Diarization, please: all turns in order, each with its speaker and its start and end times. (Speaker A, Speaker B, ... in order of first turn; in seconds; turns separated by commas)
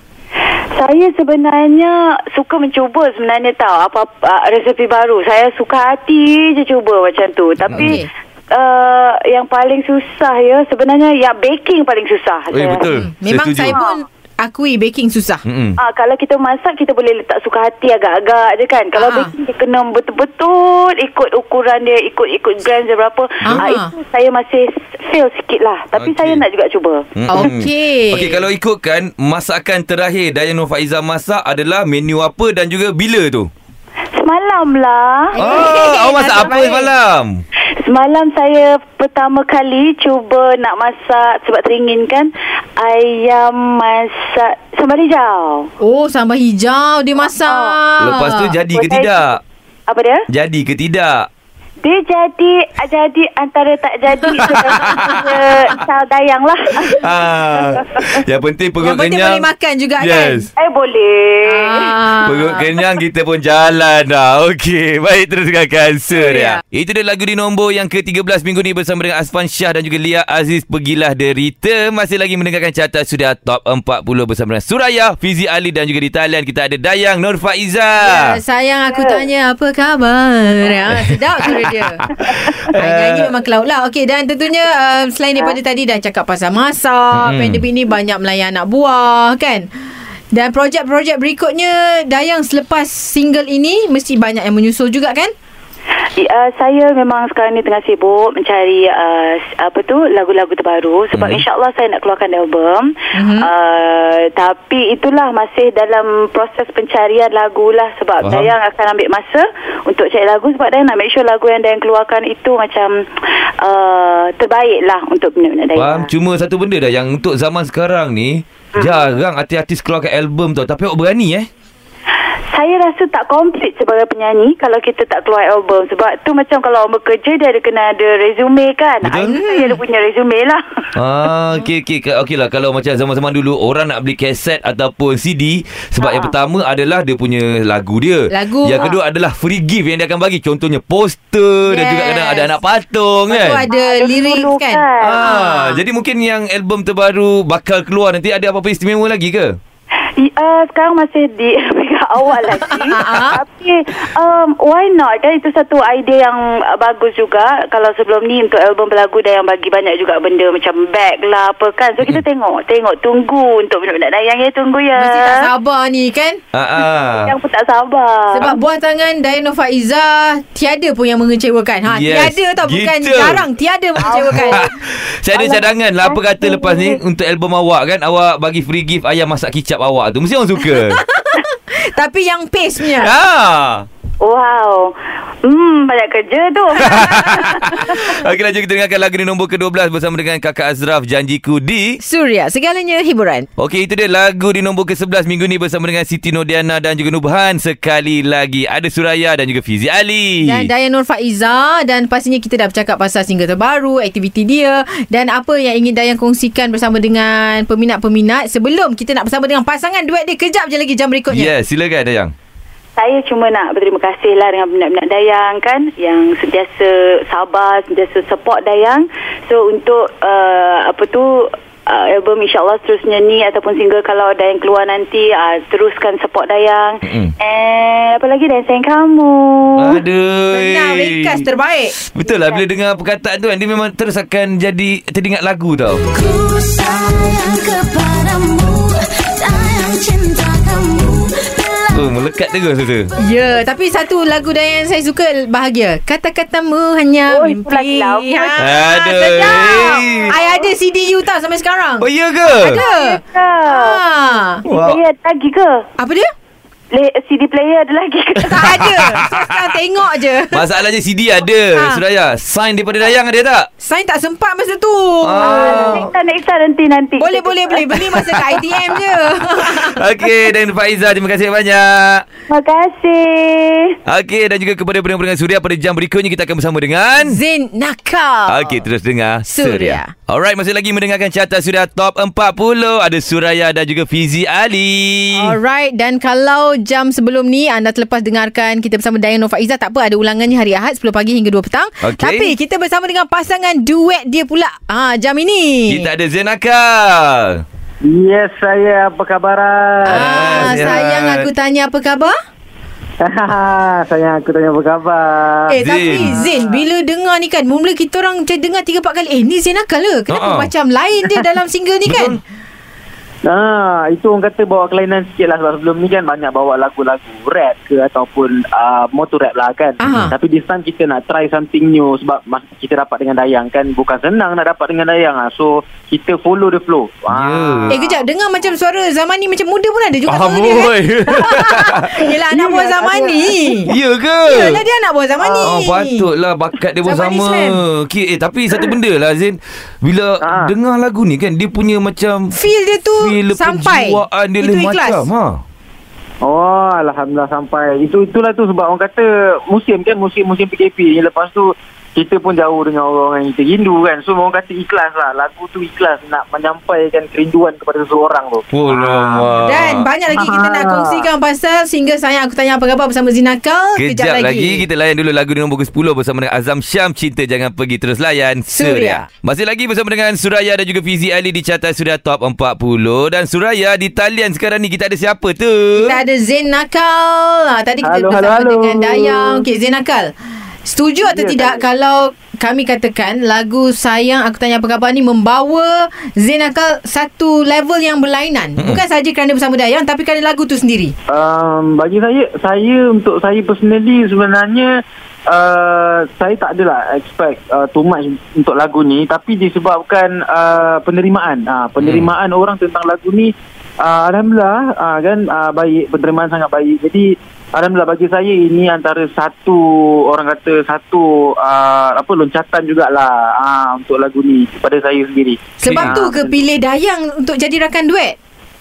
Speaker A: 0.7-12.9, Speaker B: 7.6-8.0, Speaker C: 7.7-8.1, Speaker B: 12.5-13.8, Speaker C: 12.9-15.4, Speaker B: 15.4-15.8, Speaker A: 15.8-27.0, Speaker C: 19.0-19.3, Speaker C: 23.4-23.9, Speaker B: 26.0-26.4, Speaker B: 27.1-33.5, Speaker C: 27.3-28.4, Speaker A: 34.1-35.7, Speaker C: 35.4-36.9, Speaker B: 35.4-37.4, Speaker A: 36.3-36.6, Speaker A: 37.8-45.7, Speaker C: 45.8-48.5, Speaker A: 47.3-47.8, Speaker B: 48.0-49.4, Speaker A: 48.7-49.3, Speaker A: 49.9-50.2, Speaker B: 50.3-51.3, Speaker A: 51.8-58.2, Speaker B: 54.4-55.7, Speaker C: 54.8-55.3, Speaker B: 56.9-59.5, Speaker C: 58.8-60.5, Speaker B: 60.0-60.5, Speaker A: 60.6-62.0, Speaker C: 61.4-62.7, Speaker B: 62.2-78.4, Speaker C: 66.1-66.6, Speaker C: 78.0-82.1, Speaker A: 78.9-79.3, Speaker B: 80.9-83.3, Speaker C: 82.7-89.7, Speaker B: 87.1-87.6, Speaker C: 90.3-95.3, Speaker A: 96.2-113.0, Speaker B: 101.1-101.4, Speaker C: 103.1-103.5, Speaker B: 108.2-108.5, Speaker A: 113.6-116.1, Speaker B: 115.8-121.5, Speaker A: 118.7-119.0, Speaker A: 122.5-130.8, Speaker B: 129.0-129.3, Speaker C: 129.2-129.8, Speaker B: 130.9-143.6, Speaker A: 136.0-136.3, Speaker C: 138.3-138.9, Speaker C: 141.7-142.5, Speaker C: 143.3-145.8, Speaker A: 143.7-145.3, Speaker B: 145.0-149.6, Speaker A: 150.2-165.5, Speaker C: 152.6-153.4, Speaker C: 164.9-166.4, Speaker B: 166.5-167.3, Speaker A: 167.2-168.6, Speaker C: 168.3-174.7, Speaker B: 171.9-173.5, Speaker B: 174.0-181.0, Speaker A: 174.0-174.7, Speaker A: 175.3-177.0, Speaker C: 180.7-183.1, Speaker B: 182.8-183.9, Speaker A: 184.2-188.0, Speaker C: 186.8-188.2, Speaker B: 186.8-192.0, Speaker C: 192.0-193.5, Speaker B: 193.6-200.7, Speaker C: 200.4-211.5, Speaker B: 211.3-212.3, Speaker A: 213.0-230.0, Speaker B: 227.0-227.3, Speaker B: 229.8-231.4, Speaker C: 230.5-231.9, Speaker B: 232.0-236.1, Speaker A: 232.2-232.6, Speaker D: 236.2-238.2, Speaker A: 237.5-237.9, Speaker D: 239.3-241.8, Speaker B: 241.9-243.1, Speaker C: 243.2-254.6, Speaker A: 247.3-248.7, Speaker B: 248.6-250.3, Speaker A: 250.0-250.7, Speaker B: 252.0-252.8, Speaker A: 252.6-254.0, Speaker B: 254.6-255.0, Speaker A: 254.7-255.8, Speaker C: 256.0-256.3, Speaker A: 256.9-258.9, Speaker C: 258.4-260.7, Speaker B: 258.4-259.7, Speaker B: 260.5-263.7, Speaker C: 261.7-262.0, Speaker C: 263.8-266.1, Speaker B: 265.2-266.1, Speaker A: 265.4-268.0, Speaker C: 267.2-270.0, Speaker B: 268.1-272.2, Speaker A: 272.5-274.0, Speaker B: 274.1-277.4, Speaker C: 277.2-278.8, Speaker B: 278.5-285.6, Speaker C: 279.5-280.1, Speaker C: 285.3-296.1, Speaker B: 292.0-292.5, Speaker B: 295.9-297.6, Speaker E: 298.0-300.9, Speaker C: 300.1-302.3, Speaker B: 300.1-301.5, Speaker E: 303.2-306.8, Speaker C: 305.7-312.4, Speaker B: 305.8-306.4, Speaker B: 310.3-310.7, Speaker B: 312.1-312.4, Speaker E: 313.4-328.2, Speaker C: 320.0-320.3, Speaker B: 320.1-320.3, Speaker B: 327.3-328.0, Speaker C: 327.9-333.9, Speaker B: 330.3-332.2, Speaker E: 332.5-333.8, Speaker B: 333.9-334.8, Speaker C: 334.5-336.3, Speaker E: 335.4-335.8, Speaker B: 335.6-342.6, Speaker C: 337.0-337.8, Speaker E: 340.4-340.7, Speaker C: 342.5-345.2, Speaker B: 343.2-345.6, Speaker E: 346.4-359.5, Speaker B: 358.7-360.1, Speaker C: 359.6-364.8, Speaker E: 360.3-361.3, Speaker B: 364.0-376.2, Speaker C: 368.7-369.2, Speaker C: 375.9-380.3, Speaker E: 378.0-379.6, Speaker C: 380.8-391.1, Speaker E: 381.2-381.8, Speaker E: 391.3-394.9, Speaker E: 395.5-416.6, Speaker B: 402.0-402.3, Speaker C: 415.8-418.4, Speaker B: 415.8-416.2